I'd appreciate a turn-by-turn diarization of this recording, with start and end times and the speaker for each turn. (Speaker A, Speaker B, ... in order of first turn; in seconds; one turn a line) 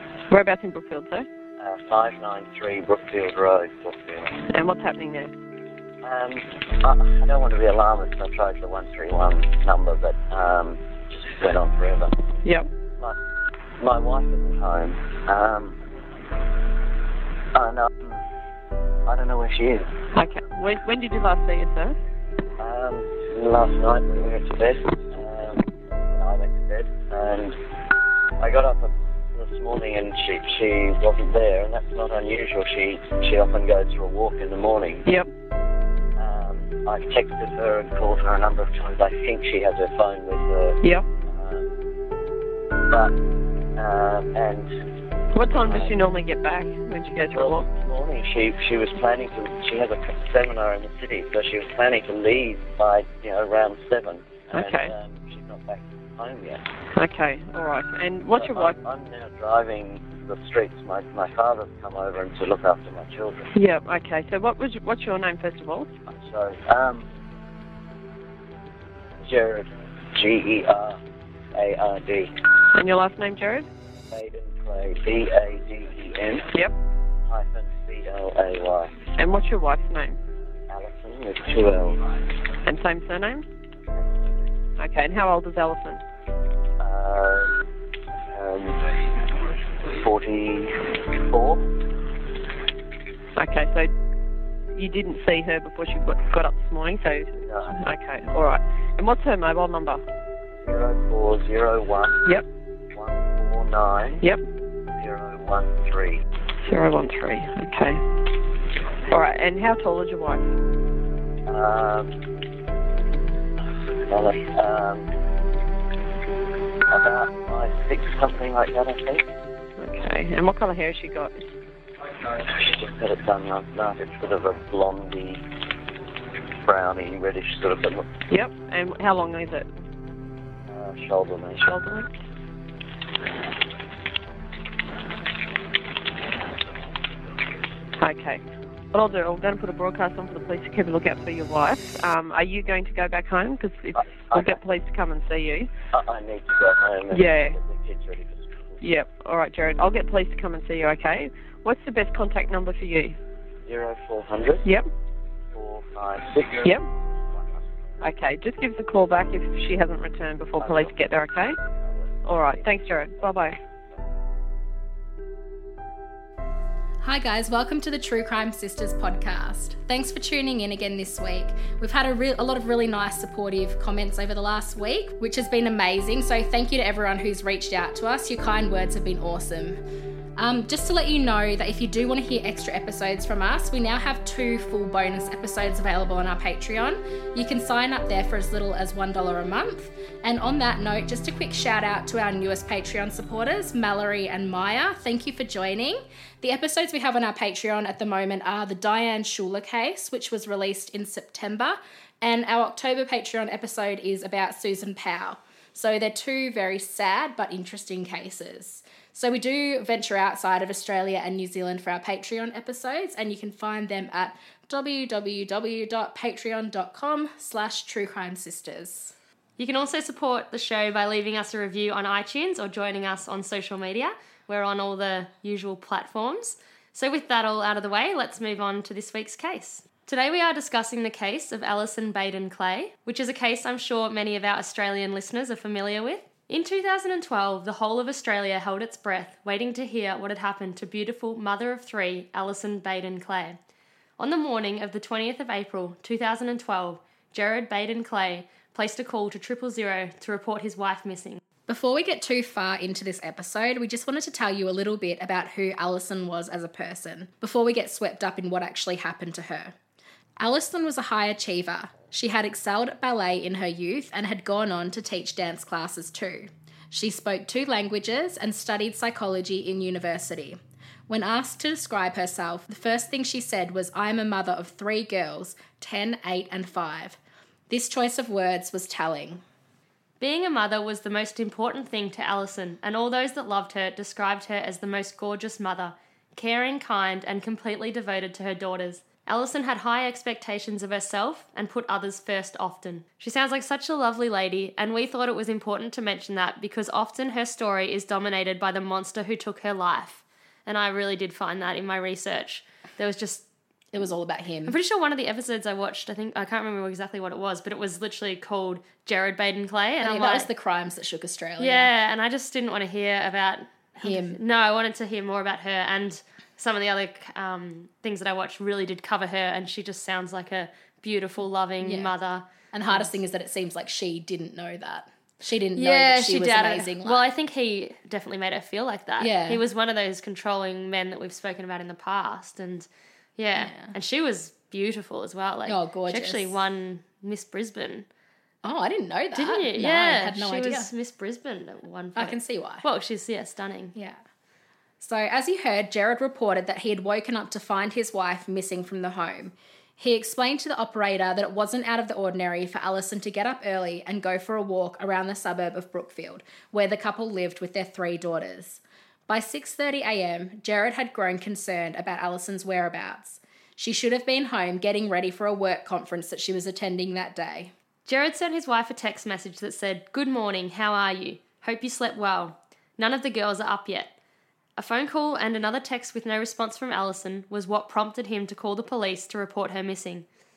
Speaker A: 0.3-1.2
Speaker B: 1.6-4.4
Speaker A: 4.5-5.3
Speaker B: 6.0-12.2
Speaker A: 12.4-12.7
Speaker B: 13.8-15.8
Speaker B: 17.5-18.2
Speaker B: 19.1-19.9
Speaker A: 20.1-21.9
Speaker B: 22.6-27.6
Speaker B: 28.4-35.0
Speaker B: 36.1-41.7
Speaker B: 42.9-43.1
Speaker B: 43.8-44.7
Speaker A: 45.3-47.7
Speaker B: 45.5-45.9
Speaker B: 47.3-56.6
Speaker A: 54.5-54.9
Speaker A: 56.9-58.7
Speaker B: 58.3-63.5
Speaker A: 63.5-65.9
Speaker B: 66.1-67.0
Speaker B: 69.2-71.0
Speaker B: 71.5-72.3
Speaker A: 72.7-73.7
Speaker B: 74.1-76.5
Speaker B: 77.3-78.9
Speaker A: 79.2-80.2
Speaker B: 80.7-82.0
Speaker A: 82.6-83.4
Speaker A: 84.8-86.0
Speaker B: 86.8-87.5
Speaker B: 88.3-88.8
Speaker B: 89.8-91.7
Speaker A: 93.3-93.9
Speaker A: 94.7-100.0
Speaker B: 97.4-97.8
Speaker B: 100.6-102.3
Speaker B: 102.9-104.2
Speaker B: 105.0-106.2
Speaker A: 106.7-108.0
Speaker A: 109.1-110.5
Speaker B: 111.5-112.2
Speaker B: 114.0-115.1
Speaker B: 116.9-119.3
Speaker A: 119.8-121.4
Speaker B: 122.2-125.4
Speaker B: 126.6-128.1
Speaker A: 128.3-129.7
Speaker B: 130.7-131.7
Speaker A: 131.7-132.1
Speaker A: 138.0-145.7
Speaker B: 144.0-144.6
Speaker B: 145.9-148.8
Speaker A: 147.1-147.6
Speaker A: 148.8-153.2
Speaker B: 153.7-154.7
Speaker B: 155.5-156.8
Speaker A: 158.0-161.6
Speaker B: 160.6-160.9
Speaker A: 162.2-163.6
Speaker B: 162.3-162.7
Speaker C: 167.0-179.8
Speaker C: 180.3-219.1
Speaker D: 219.6-243.6
Speaker D: 244.2-251.4
Speaker C: 251.7-259.8
Speaker C: 260.4-277.2
Speaker C: 277.7-279.4
Speaker D: 280.2-303.4
Speaker C: 303.9-304.8
Speaker D: 304.6-310.5
Speaker C: 310.0-311.9
Speaker D: 311.6-323.1
Speaker C: 314.0-314.4
Speaker C: 321.8-322.1
Speaker C: 322.7-327.2
Speaker D: 325.7-338.1
Speaker C: 329.2-329.6
Speaker C: 333.6-333.9
Speaker C: 335.6-336.6
Speaker C: 338.6-340.9
Speaker D: 339.3-343.9
Speaker C: 342.1-342.8
Speaker C: 343.9-344.2
Speaker C: 345.0-367.7
Speaker D: 368.1-374.1
Speaker D: 374.8-380.2